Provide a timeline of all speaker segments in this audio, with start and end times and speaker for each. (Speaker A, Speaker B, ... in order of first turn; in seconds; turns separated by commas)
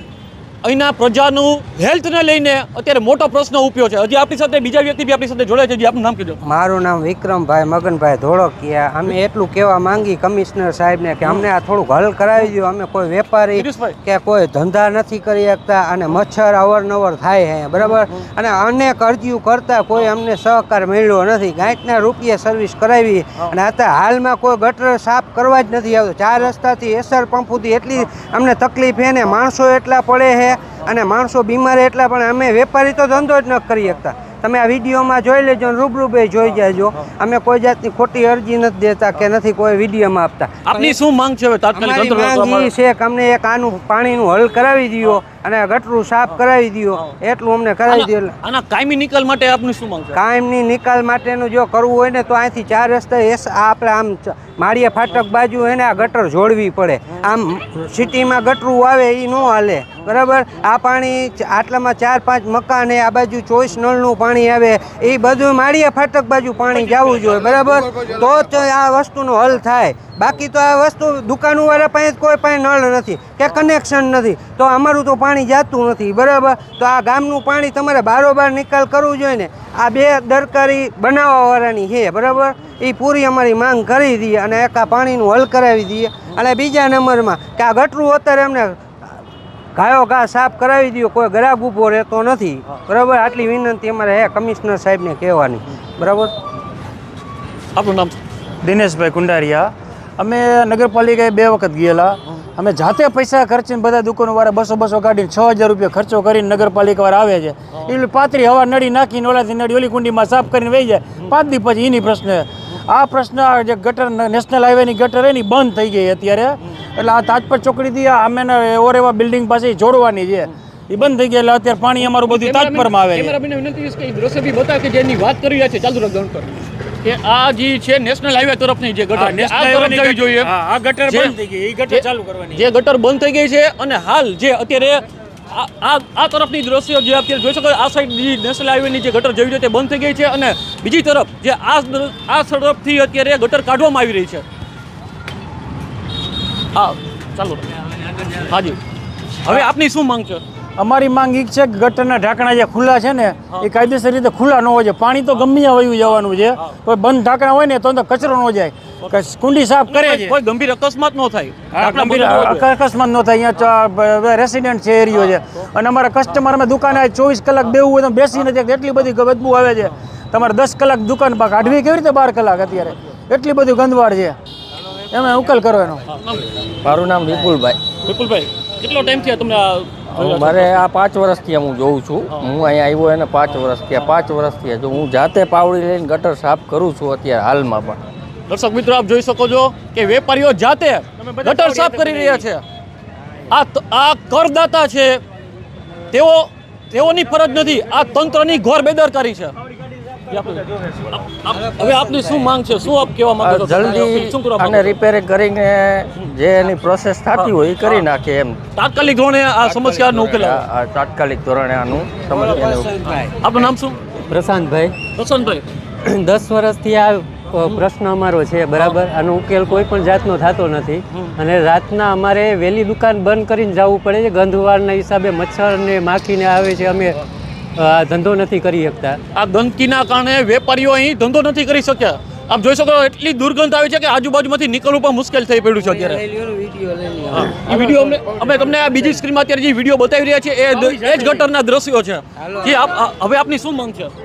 Speaker A: 0.6-6.4, Speaker B: 6.4-41.0, Speaker A: 13.5-14.0, Speaker A: 40.6-42.7, Speaker B: 41.7-48.3, Speaker A: 47.9-50.2, Speaker B: 50.1-88.8, Speaker B: 89.7-96.3, Speaker A: 97.7-98.2, Speaker C: 98.6-123.3, Speaker A: 122.0-130.5, Speaker C: 129.1-132.6, Speaker A: 131.1-131.3, Speaker A: 131.9-144.4, Speaker A: 146.7-147.7, Speaker A: 148.3-148.8, Speaker A: 149.4-150.4, Speaker C: 150.8-160.4, Speaker A: 159.9-162.7, Speaker C: 161.7-174.3, Speaker C: 175.1-176.0, Speaker D: 176.8-177.8, Speaker A: 178.0-180.8, Speaker D: 180.2-188.0, Speaker A: 188.5-192.6, Speaker C: 191.4-192.4, Speaker A: 193.5-195.2, Speaker A: 196.1-199.5, Speaker A: 200.3-204.9, Speaker B: 201.5-202.4, Speaker D: 203.4-208.6, Speaker A: 208.8-210.6, Speaker D: 209.6-212.9, Speaker A: 213.2-214.0, Speaker E: 214.3-214.9, Speaker A: 215.1-215.6, Speaker E: 216.1-227.2, Speaker E: 227.8-229.2, Speaker A: 229.3-236.2, Speaker B: 235.8-237.9, Speaker A: 237.3-244.1, Speaker B: 240.8-241.3, Speaker B: 242.4-242.8